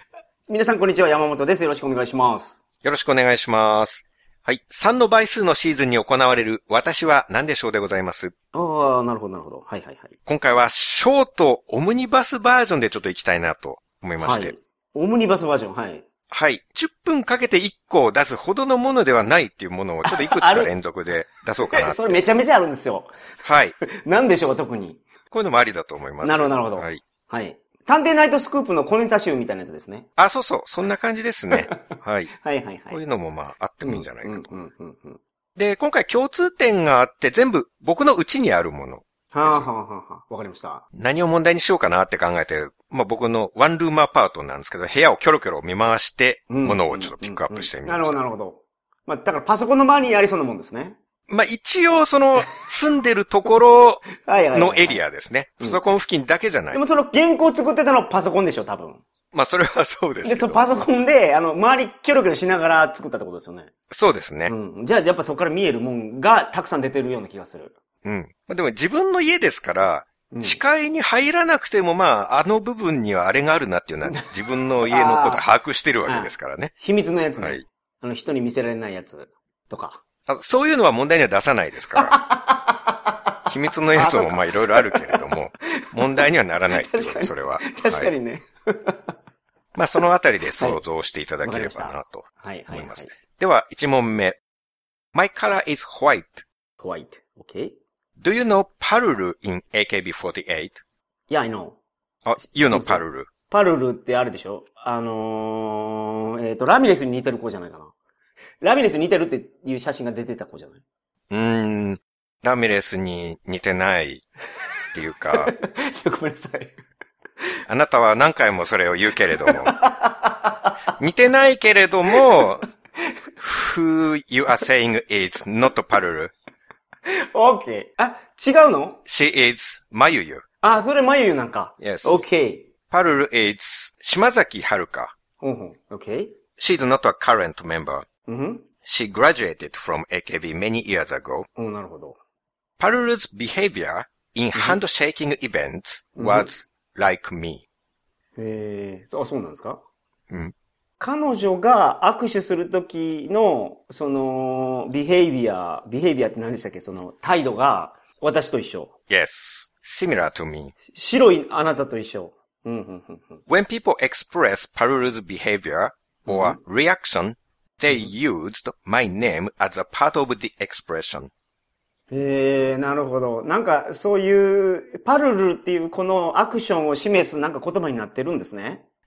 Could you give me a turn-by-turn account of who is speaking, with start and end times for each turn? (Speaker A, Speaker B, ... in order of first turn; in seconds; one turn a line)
Speaker A: 0.5-2.6
Speaker B: 2.8-8.3
Speaker A: 8.5-10.1
Speaker B: 10.3-14.6
Speaker A: 14.2-16.0
Speaker B: 16.3-22.2
Speaker A: 20.1-20.7
Speaker A: 21.7-23.1
Speaker B: 23.4-23.8
Speaker A: 23.9-25.0
Speaker B: 25.3-27.0
Speaker A: 26.2-30.1
Speaker B: 30.2-32.3
Speaker A: 32.3-33.0
Speaker B: 32.9-34.5
Speaker A: 33.8-35.2
Speaker B: 35.6-39.7
Speaker A: 39.3-40.8
Speaker B: 40.9-48.2
Speaker A: 46.5-51.0
Speaker B: 51.3-56.8
Speaker A: 54.2-55.0
Speaker A: 56.7-59.0
Speaker B: 59.3-60.9
Speaker A: 60.2-63.7
Speaker B: 63.9-64.5
Speaker A: 64.5-67.8
Speaker B: 68.0-76.7
Speaker A: 70.3-70.6
Speaker A: 74.0-75.4
Speaker A: 76.1-80.0
Speaker B: 80.3-82.2
Speaker A: 82.0-83.2
Speaker B: 83.5-88.1
Speaker A: 84.0-85.2
Speaker A: 85.9-89.0
Speaker B: 89.8-94.4
Speaker A: 91.4-93.1
Speaker B: 95.1-96.5
Speaker A: 96.8-97.7
Speaker B: 98.2-100.8
Speaker A: 101.3-101.8
Speaker B: 102.2-103.3
Speaker A: 102.6-107.9
Speaker A: 108.6-110.8
Speaker B: 111.3-114.2
Speaker B: 114.9-115.5
Speaker A: 115.4-116.8
Speaker B: 117.7-119.8
Speaker A: 119.5-120.7
Speaker B: 121.0-122.7
Speaker B: 123.4-126.3
Speaker A: 127.1-129.0
Speaker B: 129.1-130.4
Speaker A: 130.6-132.7
Speaker B: 131.8-132.3
Speaker B: 132.9-135.1
Speaker A: 135.4-136.3
Speaker B: 136.6-138.1
Speaker A: 138.3-138.7
Speaker B: 138.8-141.5
Speaker A: 141.6-142.2
Speaker B: 142.8-147.7
Speaker A: 144.5-144.8
Speaker A: 146.2-146.5
Speaker A: 148.4-149.8
Speaker A: 151.0-158.9
Speaker B: 159.1-160.8
Speaker A: 160.9-163.4
Speaker B: 163.5-171.3
Speaker A: 166.3-166.6
Speaker A: 172.1-178.8